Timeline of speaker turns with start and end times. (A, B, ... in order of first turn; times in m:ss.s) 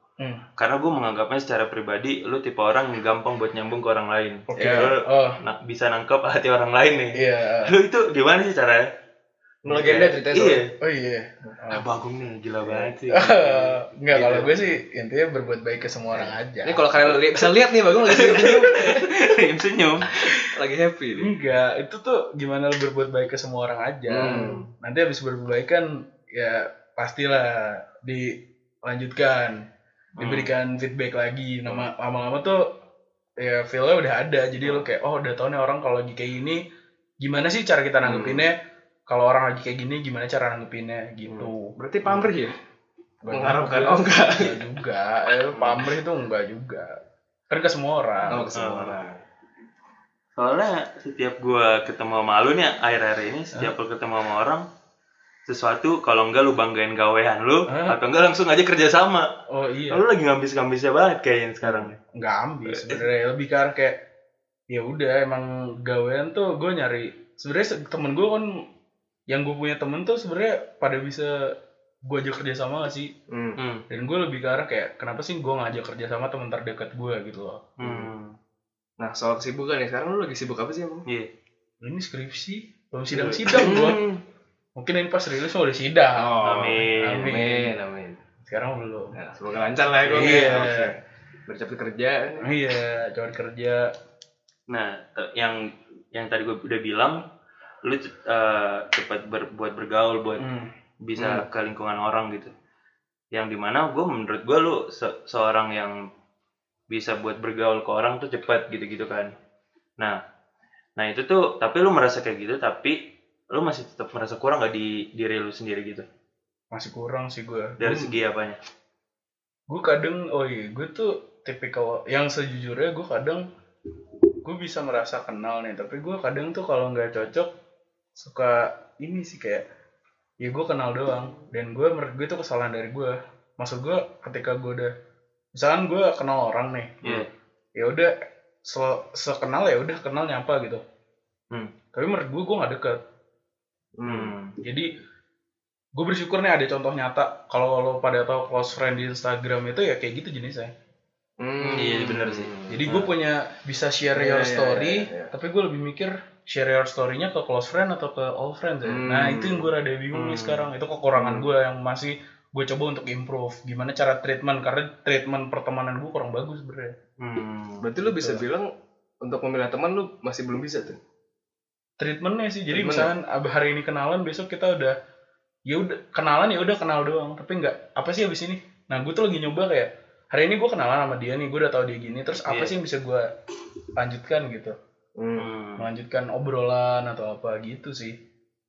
0:00.2-0:00.4 A
0:00.6-0:08.9 B
0:04.5-0:05.4 A
0:04.6-0:04.9 C
0:07.2-0:07.7 A
0:09.6-0:10.6 C
0:09.7-0:10.2 A
0:09.8-0:10.7 B
0:10.8-0:11.8 A
0:11.7-0:13.8 B
0:13.1-0:17.2 A
0:14.1-0:14.7 C
0:16.1-0:19.0 C
0:18.1-0:20.4 B
0:18.1-0:18.9 A
0:20.5-0:21.3 C
0:21.2-0:29.6 A
0:24.1-0:24.6 C
0:30.2-0:30.5 B
0:30.2-0:32.6 A
0:33.4-0:36.6 A
0:34.6-0:34.9 C
0:37.2-0:38.6 A
0:38.0-0:38.5 C
0:39.1-0:42.3 A
0:41.3-0:42.5 C
0:43.2-0:47.0 A
0:43.3-0:44.6 C
0:45.3-0:45.8 C
0:47.5-0:48.5 A
0:48.3-0:49.2 C
0:48.5-0:49.0 B
0:50.4-0:54.6 B
0:55.5-0:59.3 B
0:57.7-0:58.0 A
0:59.5-1:00.0 A
0:59.9-1:02.0 B
1:01.6-1:04.0 A
1:02.7-1:03.0 B
1:04.7-1:08.5 A
1:09.3-1:11.3 A
1:12.0-1:13.1 A
1:13.3-1:13.6 C
1:13.6-1:13.8 B
1:13.9-1:17.7 A
1:17.8-1:18.3 B
1:17.8-1:18.1 C
1:19.0-1:21.0 C
1:21.8-1:24.0 A
1:23.4-1:24.2 C
1:24.8-1:27.7 A
1:26.1-1:28.2 C
1:26.4-1:27.3 B
1:28.4-1:29.1 A
1:29.1-1:32.5 C
1:30.0-1:30.9 A
1:30.1-1:30.6 B
1:32.4-1:33.9 A
1:34.7-1:37.2 B
1:37.8-1:40.5 B
1:40.4-1:40.7 A
1:41.0-1:42.5 B
1:41.2-1:41.4 C
1:43.3-1:46.0 B
1:46.9-1:49.3 B
1:51.0-1:56.0 B
1:56.7-1:57.9 A
1:57.8-1:58.6 B
1:57.8-1:58.1 C
1:59.7-2:03.4 A
2:04.4-2:07.5 A
2:08.2-2:09.6 A
2:10.4-2:14.9 A
2:15.5-2:17.1 A
2:17.0-2:17.3 B
2:17.8-2:18.1 A
2:18.6-2:20.8 A
2:21.9-2:23.0 A
2:24.0-2:24.3 C
2:24.0-2:24.6 B
2:24.6-2:24.9 A
2:26.0-2:30.7 A
2:31.4-2:33.1 C
2:31.6-2:32.5 B
2:32.7-2:47.0 A
2:34.1-2:35.3 C
2:38.8-2:39.7 C
2:40.1-2:40.7 B
2:41.1-2:41.5 C
2:47.2-2:47.8 B
2:47.8-2:48.7 C
2:48.0-2:48.4 A
2:49.2-2:51.0 C
2:52.0-2:54.9 A
2:52.7-2:53.1 C
2:55.7-3:03.3 A
3:02.5-3:02.7 B
3:04.0-3:04.8 A
3:05.2-3:05.5 C
3:05.4-3:05.9 B
3:05.8-3:08.2 A